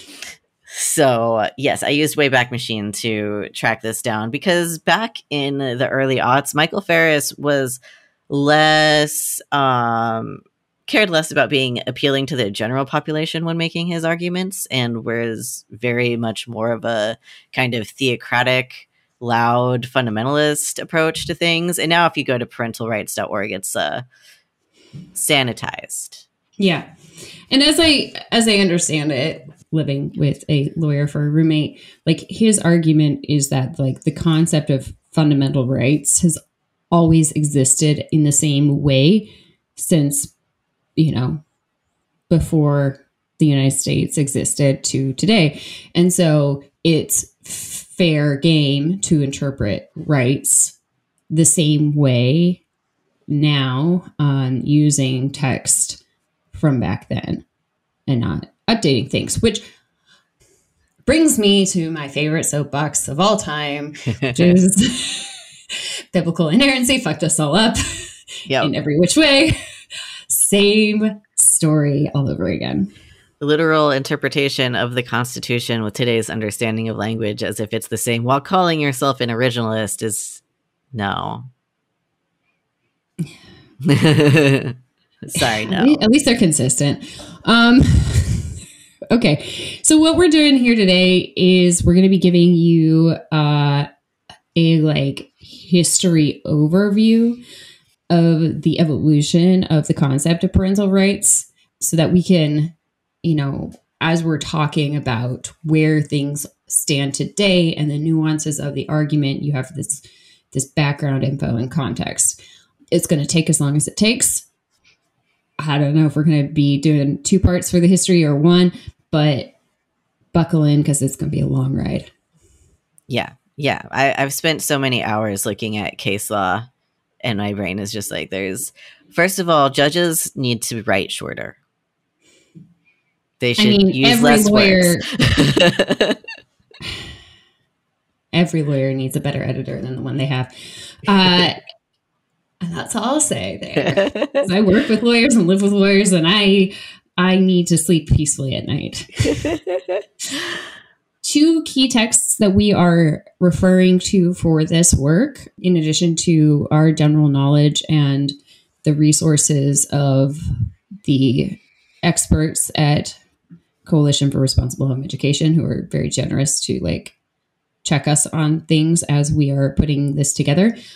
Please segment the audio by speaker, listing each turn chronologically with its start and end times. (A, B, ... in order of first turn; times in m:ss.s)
0:00.7-0:24.1 A
0:25.2-0:26.2 A
0:26.6-0:26.9 B
0:27.5-0:36.4 B
0:36.9-0:40.3 B
0:41.0-0:41.4 B
0:42.3-0:50.8 B
0:51.3-0:52.6 B
0:53.3-0:56.0 B
0:56.5-0:57.4 B
0:58.1-0:59.6 B
1:01.1-1:05.4 B
1:06.1-1:09.6 B
1:10.3-1:12.9 B
1:13.4-1:20.4 A
1:20.9-1:21.5 A
1:23.8-1:24.8 A
1:25.3-1:26.0 A
1:25.3-1:28.5 B
1:29.1-1:33.9 B
1:34.6-1:37.4 B
1:38.1-1:52.4 B
1:52.9-1:54.5 B
1:55.6-1:59.5 B
2:00.3-2:02.1 B
2:03.1-2:06.7 A
2:07.2-2:11.6 A
2:13.4-2:16.2 A
2:13.6-2:15.5 B
2:18.3-2:21.6 B
2:22.6-2:29.5 B
2:23.8-2:24.4 A
2:29.4-2:30.0 A
2:31.2-2:40.4 B
2:41.0-2:43.2 B
2:43.9-2:47.2 B
2:47.8-2:50.8 B